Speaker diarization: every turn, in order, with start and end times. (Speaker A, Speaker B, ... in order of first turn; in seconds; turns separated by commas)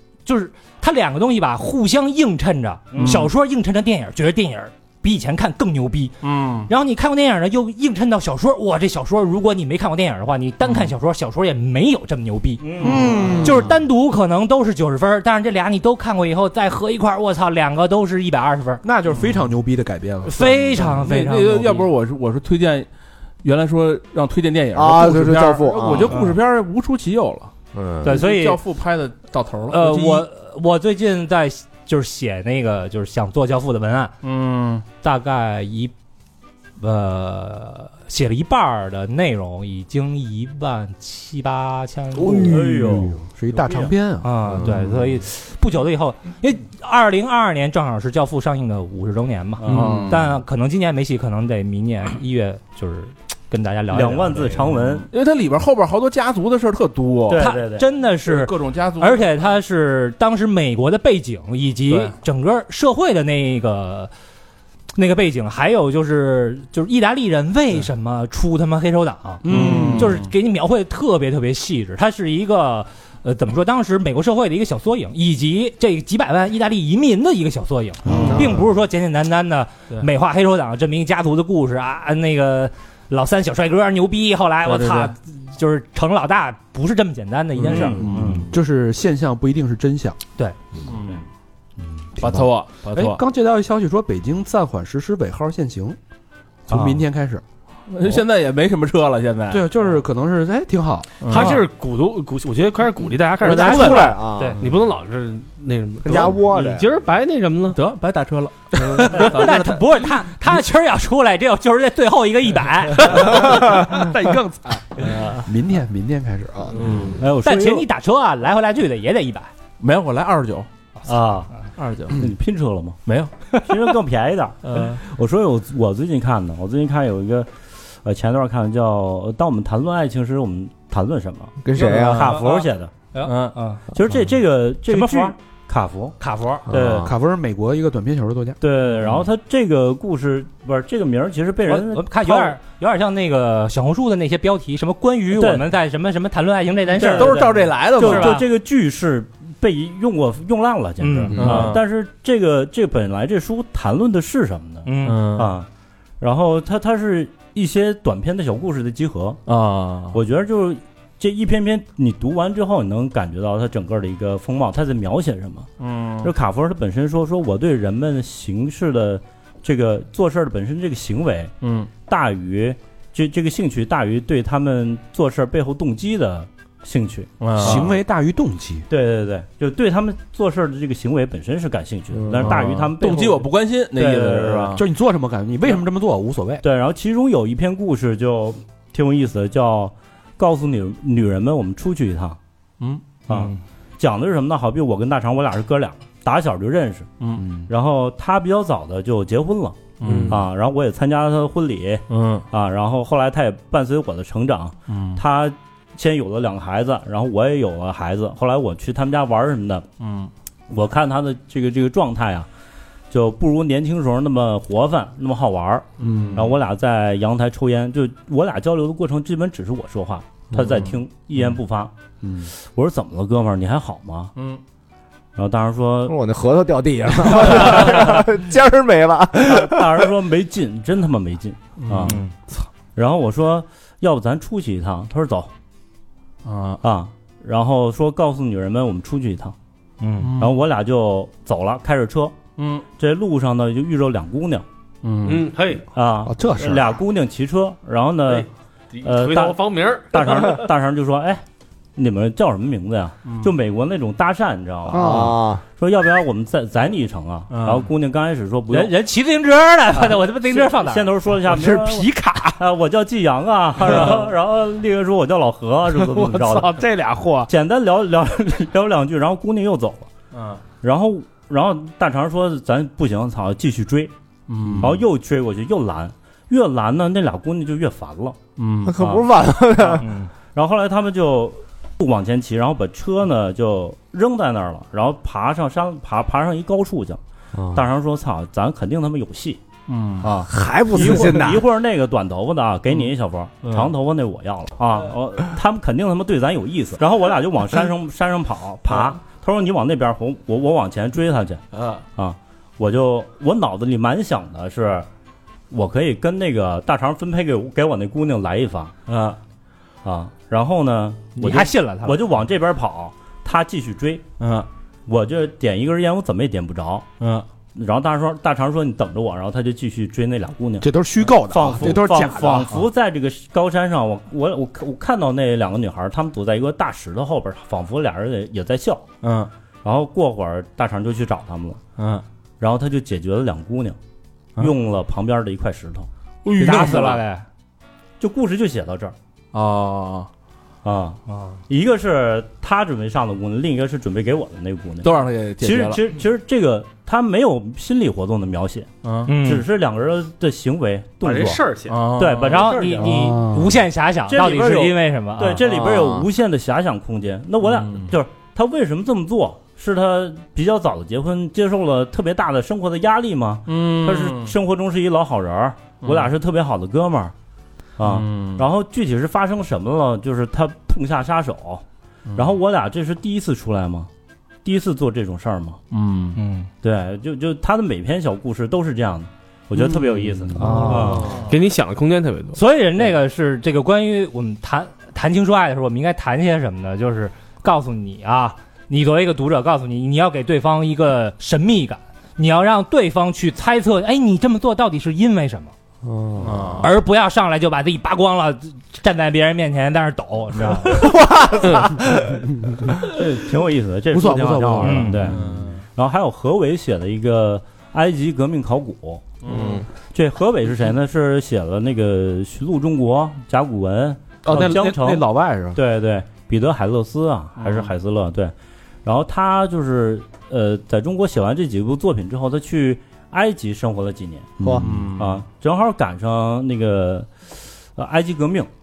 Speaker A: 0.3-12.7, Speaker B: 2.9-3.2, Speaker C: 3.0-3.3, Speaker C: 6.2-6.7, Speaker B: 12.6-13.4, Speaker C: 12.8-13.7, Speaker D: 12.8-13.7, Speaker A: 13.4-18.8, Speaker D: 18.8-20.4, Speaker C: 19.1-19.4, Speaker A: 20.2-21.9, Speaker C: 20.4-22.9, Speaker C: 23.4-30.3, Speaker E: 24.7-26.2, Speaker E: 27.8-28.1, Speaker A: 28.0-28.6, Speaker A: 29.7-34.2, Speaker C: 34.2-34.8, Speaker A: 35.0-35.9, Speaker A: 36.8-42.5, Speaker D: 42.2-44.7, Speaker B: 42.5-43.9, Speaker A: 44.2-54.6, Speaker B: 49.6-50.0, Speaker E: 49.7-50.2, Speaker C: 49.7-50.2, Speaker B: 53.9-55.1, Speaker C: 55.1-57.4, Speaker B: 57.3-57.9, Speaker A: 57.4-64.1, Speaker C: 58.2-59.4, Speaker C: 61.9-62.1, Speaker A: 65.0-88.0, Speaker D: 69.4-70.2, Speaker C: 69.5-70.3, Speaker B: 78.1-78.5, Speaker C: 78.1-78.4, Speaker C: 84.7-85.1, Speaker C: 87.6-88.5, Speaker B: 87.7-88.5, Speaker D: 88.2-90.2, Speaker C: 90.9-91.2, Speaker C: 92.2-93.2, Speaker D: 92.2-96.0, Speaker D: 96.7-97.4, Speaker B: 96.7-97.0, Speaker C: 97.9-99.7, Speaker D: 99.5-101.3, Speaker C: 101.2-101.7, Speaker F: 101.3-107.8, Speaker E: 103.4-104.7, Speaker A: 103.5-104.6, Speaker E: 106.0-106.9, Speaker C: 107.7-109.8, Speaker F: 108.9-109.2, Speaker A: 108.9-113.4, Speaker C: 113.2-113.7, Speaker D: 113.3-116.9, Speaker C: 116.8-117.2, Speaker B: 117.2-117.9, Speaker A: 117.4-119.5, Speaker C: 119.8-120.7, Speaker B: 121.0-121.5, Speaker C: 121.8-122.3, Speaker B: 122.1-123.0, Speaker C: 123.1-123.3, Speaker B: 123.6-127.5, Speaker C: 124.7-125.0, Speaker B: 128.0-132.9, Speaker E: 131.7-132.4, Speaker A: 131.8-133.8, Speaker C: 131.8-132.0, Speaker C: 133.2-133.6, Speaker B: 133.9-136.2, Speaker A: 134.9-135.3, Speaker A: 136.2-136.7, Speaker B: 136.7-137.1, Speaker E: 136.7-137.1, Speaker D: 136.9-138.6, Speaker B: 138.6-142.6, Speaker A: 141.7-148.4, Speaker B: 145.3-145.7, Speaker C: 146.9-148.4, Speaker B: 147.0-147.4, Speaker B: 147.9-155.7, Speaker A: 151.0-151.7, Speaker C: 151.3-151.8, Speaker A: 154.9-155.2, Speaker C: 155.0-155.5, Speaker B: 156.2-159.4, Speaker C: 159.5-160.2, Speaker B: 160.1-165.7, Speaker C: 165.8-166.3, Speaker B: 166.2-171.5, Speaker C: 171.6-171.9, Speaker B: 172.1-177.9, Speaker C: 177.4-177.9, Speaker D: 177.6-178.9, Speaker B: 178.9-184.8, Speaker C: 182.2-184.8, Speaker D: 184.8-186.6, Speaker B: 186.6-192.4, Speaker C: 192.8-193.2, Speaker B: 193.3-209.8, Speaker C: 197.2-197.5, Speaker C: 200.0-200.4, Speaker C: 202.1-202.4, Speaker C: 204.9-205.2, Speaker C: 210.0-210.3, Speaker B: 210.7-212.5, Speaker B: 213.1-221.9, Speaker C: 216.0-216.5, Speaker D: 216.0-216.4, Speaker D: 222.2-222.5, Speaker B: 222.6-224.3, Speaker B: 225.4-226.2, Speaker E: 226.1-230.1, Speaker B: 227.3-228.2, Speaker B: 229.5-232.2, Speaker C: 231.8-232.3, Speaker B: 233.0-235.5, Speaker C: 236.4-236.8, Speaker B: 236.8-239.6, Speaker A: 240.0-240.3, Speaker C: 240.2-240.5, Speaker B: 240.4-242.4, Speaker C: 242.6-242.8, Speaker B: 243.0-244.7, Speaker C: 245.0-245.5, Speaker F: 245.2-245.8, Speaker B: 245.9-248.5, Speaker D: 246.3-247.0, Speaker F: 248.3-250.7, Speaker B: 249.0-249.6, Speaker B: 250.1-251.4, Speaker B: 252.0-258.9, Speaker C: 253.3-253.5, Speaker E: 254.9-255.6, Speaker D: 254.9-255.3, Speaker C: 257.5-257.9, Speaker A: 258.7-261.1, Speaker B: 260.0-266.9, Speaker D: 261.5-262.6, Speaker D: 266.3-267.5, Speaker B: 267.5-270.1, Speaker C: 270.3-270.6, Speaker B: 270.8-274.1, Speaker C: 274.5-275.0, Speaker B: 274.8-278.4, Speaker C: 278.6-278.9, Speaker E: 278.8-280.1, Speaker B: 279.0-279.2, Speaker A: 280.0-280.3, Speaker B: 280.5-287.2, Speaker E: 287.6-287.9, Speaker B: 287.7-289.6, Speaker C: 289.9-290.3, Speaker B: 290.2-301.6, Speaker E: 290.2-291.6, Speaker C: 293.6-293.9, Speaker C: 301.8-302.0, Speaker B: 302.2-305.1, Speaker B: 305.7-308.9, Speaker C: 309.1-309.4, Speaker B: 310.0-314.2, Speaker A: 311.4-312.2, Speaker C: 314.4-314.7, Speaker B: 315.1-317.1, Speaker C: 317.2-317.5, Speaker B: 317.8-320.9, Speaker D: 320.8-322.8, Speaker B: 321.5-329.1, Speaker C: 329.2-329.5, Speaker B: 329.8-331.8, Speaker C: 332.0-332.2, Speaker B: 332.6-334.0, Speaker B: 334.6-336.1, Speaker C: 336.4-337.2, Speaker A: 336.6-337.4, Speaker B: 336.7-337.0, Speaker B: 338.2-339.1, Speaker C: 339.5-340.3, Speaker B: 340.8-351.6, Speaker A: 341.3-341.6, Speaker C: 345.0-346.0, Speaker C: 349.0-349.3, Speaker A: 349.2-349.6, Speaker F: 351.2-352.1, Speaker C: 351.9-352.7, Speaker B: 352.2-353.3, Speaker A: 352.4-355.6, Speaker D: 353.0-353.8, Speaker B: 354.3-367.3, Speaker E: 355.6-356.3, Speaker C: 357.6-358.1, Speaker C: 363.7-364.6, Speaker C: 366.0-366.3, Speaker B: 368.0-371.8, Speaker C: 368.0-368.6, Speaker C: 372.3-372.5, Speaker B: 372.4-374.1, Speaker B: 374.6-375.8, Speaker C: 375.9-376.4, Speaker A: 376.4-376.7, Speaker B: 376.8-381.3, Speaker D: 380.6-380.9, Speaker A: 380.6-381.2, Speaker F: 381.3-382.6, Speaker A: 382.5-395.7, Speaker C: 396.4-396.9, Speaker A: 396.8-401.1, Speaker E: 401.0-402.3, Speaker B: 403.1-409.2, Speaker D: 404.1-405.1, Speaker A: 404.8-405.2, Speaker C: 405.2-405.9, Speaker C: 409.4-409.8, Speaker B: 410.1-418.5, Speaker D: 414.4-415.8, Speaker C: 417.6-417.9, Speaker B: 419.1-424.5, Speaker D: 424.6-425.1, Speaker E: 424.6-424.9, Speaker C: 424.8-425.4, Speaker B: 425.2-428.7